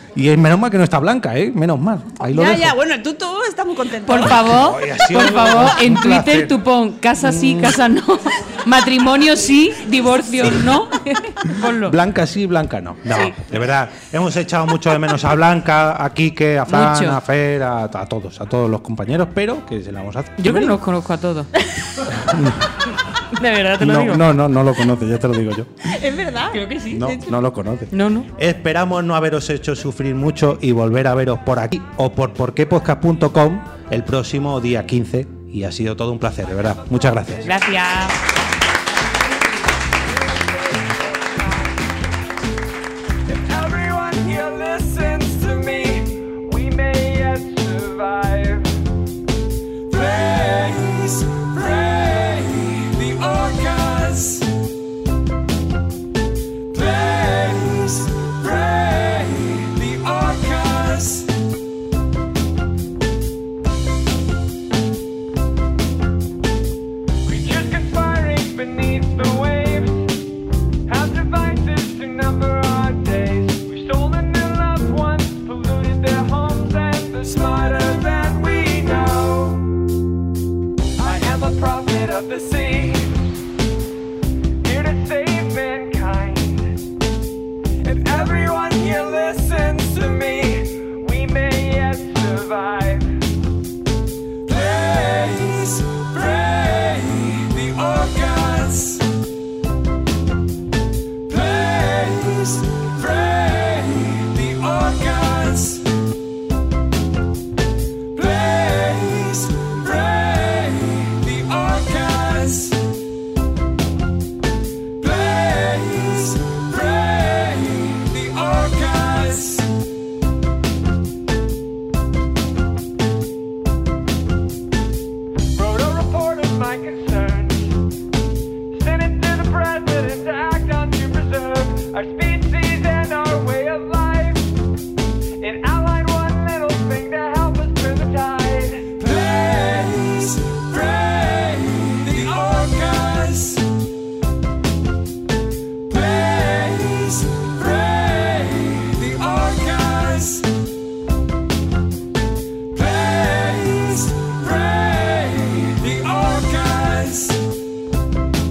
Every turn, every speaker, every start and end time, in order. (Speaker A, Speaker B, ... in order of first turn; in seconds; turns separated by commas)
Speaker A: 0.1-2.8, Speaker B: 2.2-4.5, Speaker C: 4.0-12.0, Speaker A: 4.1-6.6, Speaker A: 7.2-7.8, Speaker A: 10.4-10.8, Speaker A: 11.5-20.8, Speaker C: 16.7-17.2, Speaker C: 20.4-22.0, Speaker A: 22.1-22.7, Speaker C: 23.3-24.2, Speaker A: 23.8-25.8, Speaker B: 25.9-27.3, Speaker C: 26.5-27.1, Speaker A: 26.9-37.5, Speaker C: 27.9-28.3, Speaker C: 37.4-38.1, Speaker D: 40.3-41.8, Speaker D: 43.2-48.7, Speaker D: 49.9-54.5, Speaker D: 56.7-61.3, Speaker D: 67.2-70.1, Speaker D: 70.8-79.7, Speaker D: 81.0-83.2, Speaker D: 84.6-86.8, Speaker D: 87.8-93.2, Speaker D: 94.5-99.1, Speaker D: 101.3-105.9, Speaker D: 108.1-112.8, Speaker D: 115.0-119.7, Speaker D: 125.5-127.8, Speaker D: 128.7-134.5, Speaker D: 135.4-143.7, Speaker D: 145.9-150.5, Speaker D: 152.7-157.4